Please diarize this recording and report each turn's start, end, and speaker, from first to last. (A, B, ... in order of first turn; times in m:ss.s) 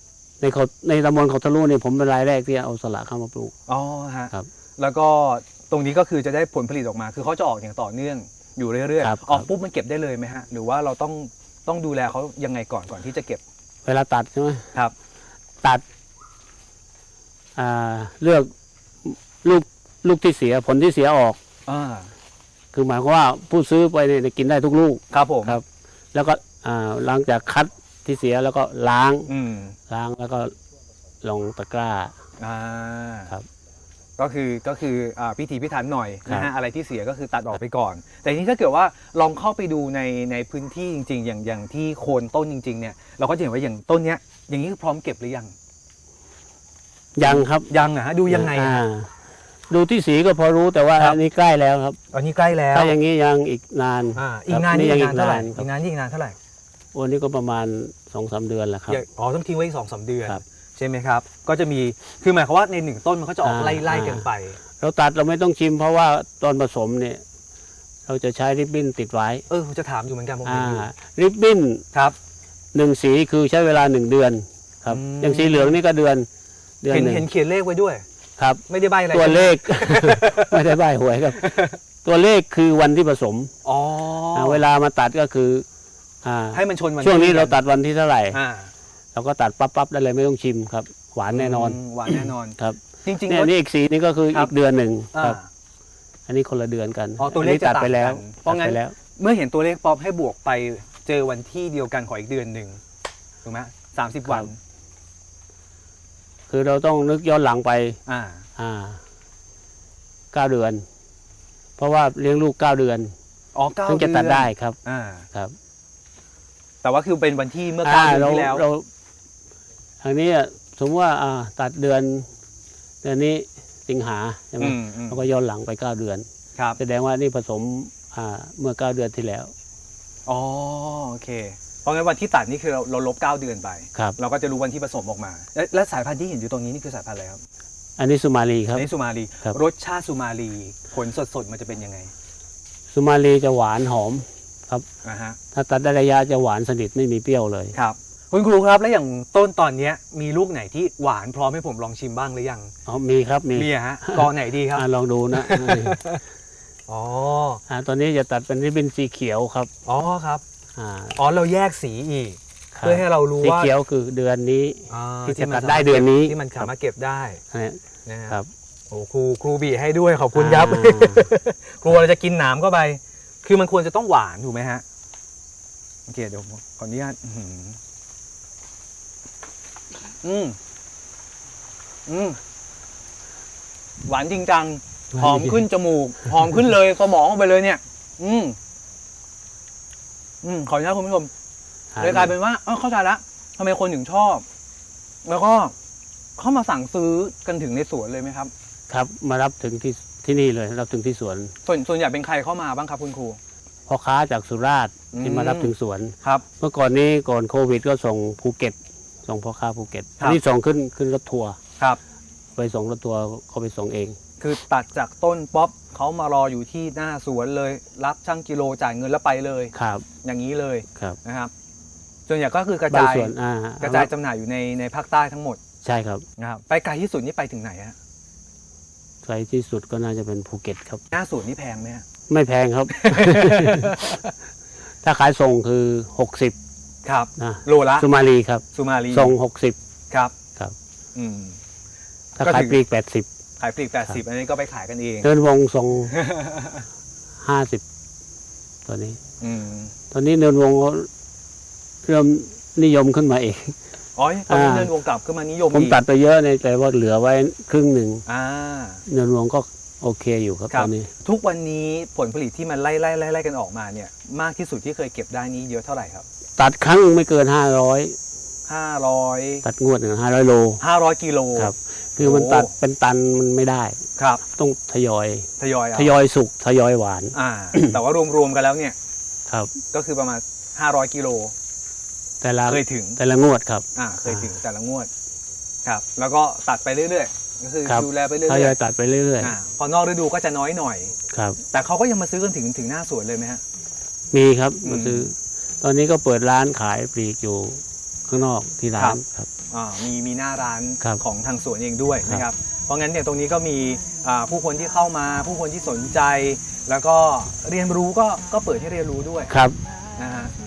0:00.4-0:03.5 A
0:03.7-0:13.4 B
0:09.0-0:09.5 A
0:13.8-0:14.7 A
0:17.6-0:18.5 A
0:19.0-0:21.4 A
0:21.6-0:22.1 B
0:22.7-0:29.3 A
0:25.1-0:25.6 B
0:29.3-0:29.8 B
0:29.9-0:30.5 A
0:31.2-0:32.1 A
0:32.4-0:33.3 B
0:34.2-0:45.5 B
0:47.2-0:47.7 A
0:47.2-0:48.8 B
0:48.3-0:49.1 A
0:49.7-0:52.0 A
0:52.1-0:53.0 B
0:52.7-0:55.6 A
0:54.1-0:56.4 B
0:56.9-0:59.0 A
0:58.9-1:04.6 B
1:03.4-1:04.3 A
1:04.8-1:07.2 A
1:08.1-1:09.4 A
1:09.5-1:10.8 B
1:10.4-1:11.8 A
1:12.7-1:16.3 A
1:14.9-1:15.8 B
1:16.8-1:17.3 A
1:16.9-1:18.0 B
1:18.4-1:23.5 A
1:18.7-1:20.6 B
1:21.4-1:21.8 B
1:23.6-1:24.6 B
1:24.3-1:25.6 A
1:26.2-1:28.4 A
1:26.5-1:27.6 B
1:28.3-1:28.7 B
1:29.1-1:35.4 A
1:31.3-1:33.5 B
1:35.1-1:35.4 B
1:36.3-1:38.9 A
1:37.2-1:42.8 B
1:43.4-1:44.6 B
1:46.5-1:48.0 A
1:48.1-1:48.4 B
1:48.6-1:49.0 A
1:50.3-1:50.8 A
1:51.8-1:53.1 A
1:53.5-1:55.2 B
1:53.8-1:54.8 A
1:56.8-1:58.6 B
1:57.8-1:58.9 A
2:00.0-2:02.3 A
2:03.0-2:06.2 A
2:04.6-2:05.2 B
2:06.8-2:09.5 A
2:10.2-2:17.4 B
2:18.0-2:18.9 A
2:18.7-2:22.1 B
2:22.9-2:24.8 A
2:25.0-2:25.4 B
2:25.5-2:27.7 A
2:27.7-2:32.7 B
2:32.8-2:36.0 A
2:33.5-2:36.2 B
2:36.9-2:37.6 B
2:37.7-2:39.7 A
2:39.8-2:40.4 B
2:40.8-2:41.2 A
2:41.2-2:43.7 B
2:42.7-2:46.7 A
2:44.9-2:47.4 B
2:47.5-2:48.5 A
2:48.0-2:48.4 B
2:48.9-2:54.8 B
2:50.3-2:51.2 A
2:56.1-2:57.8 B
3:00.2-3:00.6 B
3:02.1-3:02.4 B
3:04.0-3:08.6 B
3:05.1-3:05.6 A
3:10.4-3:11.3 B
3:11.9-3:12.3 A
3:12.0-3:14.4 B
3:15.2-3:15.7 B
3:16.4-3:18.5 B
3:18.9-3:21.5 A
3:21.6-3:23.4 B
3:23.9-3:31.6 A
3:25.1-3:26.4 B
3:32.6-3:34.2 A
3:34.4-3:39.7 B
3:39.7-3:40.0 A
3:40.2-3:41.5 B
3:42.3-3:45.6 B
3:42.9-3:44.1 A
3:45.8-3:46.2 A
3:46.4-3:48.0 B
3:49.2-3:51.0 A
3:51.1-3:52.0 B
3:52.3-3:54.1 A
3:52.9-3:54.2 B
3:55.0-3:56.6 A
3:57.0-3:58.1 B
3:57.4-3:59.8 A
3:58.7-3:59.3 B
4:01.1-4:01.6 B
4:02.4-4:02.8 B
4:02.4-4:03.3 A
4:03.6-4:05.3 B
4:05.2-4:06.2 A
4:06.1-4:06.8 B
4:07.4-4:07.8 A
4:08.8-4:09.2 A
4:09.4-4:09.9 B
4:10.1-4:11.1 A
4:12.0-4:13.8 A
4:14.2-4:16.0 B
4:14.5-4:14.9 A
4:15.7-4:18.2 A
4:18.2-4:19.0 B
4:19.1-4:21.1 A
4:20.7-4:26.2 B
4:26.6-4:28.2 A
4:28.7-4:29.6 B
4:29.6-4:30.8 A
4:30.8-4:32.7 B
4:31.6-4:38.0 A
4:35.6-4:36.1 B
4:37.3-4:39.0 B
4:39.5-4:39.7 A
4:39.9-4:41.5 B
4:42.4-4:44.5 A
4:42.7-4:43.2 B
4:44.0-4:45.1 B
4:45.8-4:48.8 B
4:47.8-4:49.6 A
4:49.4-4:51.1 B
4:51.3-4:51.6 A
4:51.7-4:53.6 B
4:54.3-4:59.5 A
4:54.8-4:55.2 B
4:59.7-5:09.5 B
5:09.5-5:09.8 A
5:10.2-5:10.5 B